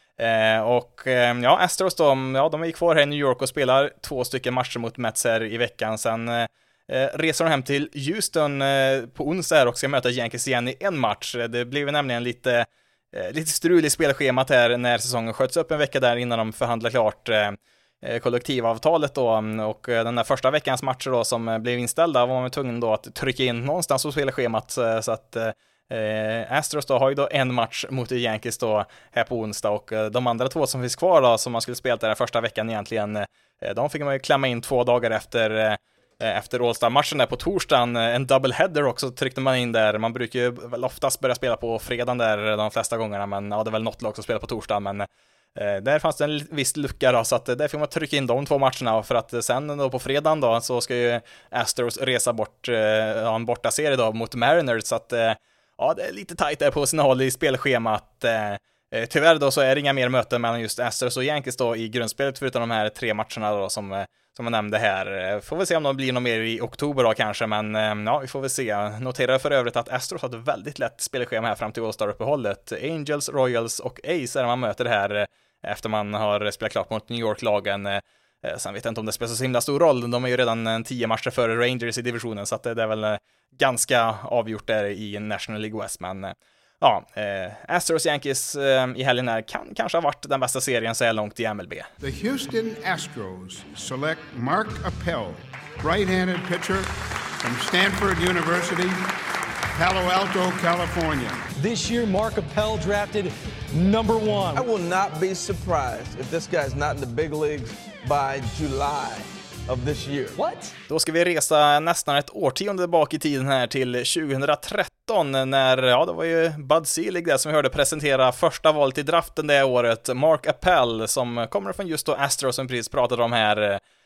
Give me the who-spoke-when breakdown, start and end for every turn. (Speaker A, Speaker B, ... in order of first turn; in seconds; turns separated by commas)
Speaker A: 0.2-91.9, Speaker B: 92.0-99.2, Speaker B: 99.8-101.5, Speaker C: 101.6-104.7, Speaker D: 104.5-110.4, Speaker C: 110.4-110.7, Speaker A: 110.9-123.8